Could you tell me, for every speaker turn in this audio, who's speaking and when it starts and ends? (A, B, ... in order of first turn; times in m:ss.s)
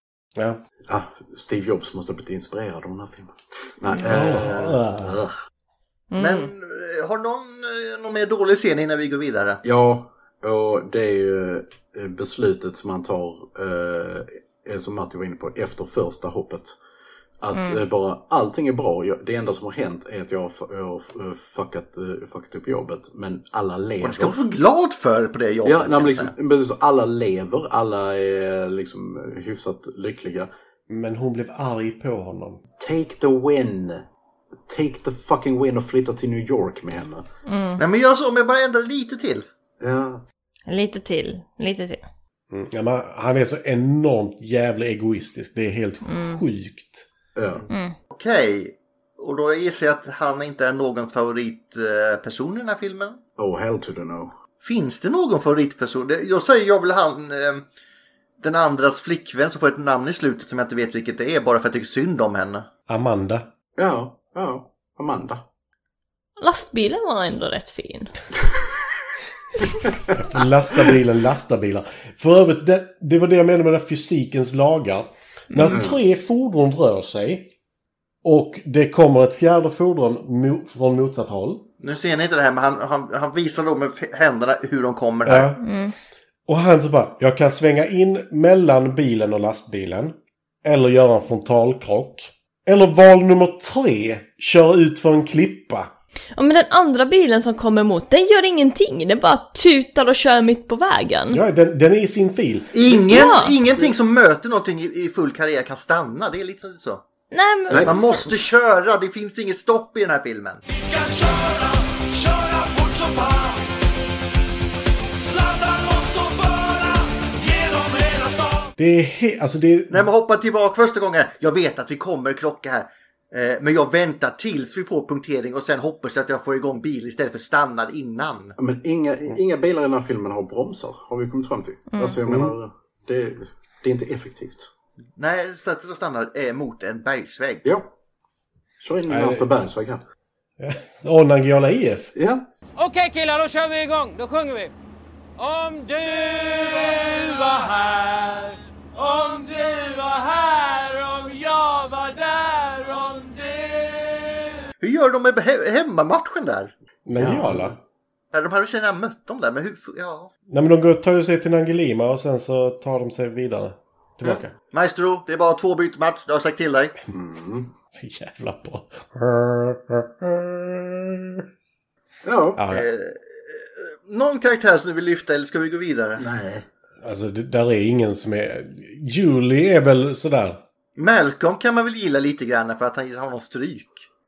0:00.9-0:05.3 A
0:04.0-0:05.2 B
0:06.1-0:06.5 C
0:06.2-0:09.6 D
0:09.6-0:16.8 A
0:17.4-0:24.5 A
0:17.5-0:17.8 C
0:24.0-0:26.3 D
0:25.6-0:30.5 A
0:30.9-0:32.6 B
0:32.8-0:34.1 A
0:34.7-0:37.3 A
0:37.5-0:37.8 C
0:37.8-0:39.4 D
0:39.8-0:40.2 A
0:40.7-0:42.0 C
0:42.5-0:47.1 B
0:46.1-0:46.4 C
0:47.4-0:47.7 A
0:47.7-0:48.0 C
0:48.1-0:53.2 D
0:53.4-0:54.3 A
0:54.6-0:57.6 D
0:58.4-1:02.7 D
1:02.9-1:03.5 B
1:03.8-1:05.4 A
1:06.4-1:08.1 C
1:10.1-1:17.5 B
1:15.5-1:15.8 C
1:15.7-1:16.0 A
1:18.2-1:21.7 B
1:21.8-1:25.5 D
1:25.3-1:25.6 B
1:25.6-1:25.9 C
1:26.5-1:35.9 B
1:36.4-1:41.4 C
1:41.3-1:42.8 B
1:42.7-1:47.0 D
1:42.9-1:43.6 C
1:47.3-1:48.3 C
1:47.7-1:48.0 A
1:47.8-1:50.6 D
1:50.7-1:53.7 E
1:55.1-1:58.7 E
1:58.8-2:00.1 B
1:59.9-2:08.6 D
2:08.6-2:14.7 A
2:11.9-2:12.2 C
2:12.3-2:12.5 B
2:15.2-2:17.7 D
2:17.6-2:17.9 A
2:18.8-2:20.0 A
2:19.1-2:19.5 B
2:20.6-2:22.1 B
2:22.2-2:22.4 A
2:22.8-2:24.7 E
2:25.4-2:34.6 E
2:34.8-2:36.7 D
2:37.1-2:37.8 B
2:37.1-2:37.8 A
2:38.3-2:40.3 D
2:40.5-2:44.5 B
2:44.7-2:47.0 D
2:47.1-2:47.7 A
2:47.9-2:51.4 B
2:52.2-2:52.6 A
2:52.6-2:52.9 B
2:52.7-2:56.3 D
2:56.2-2:56.7 A
2:57.0-3:00.6 B
3:01.0-3:04.1 D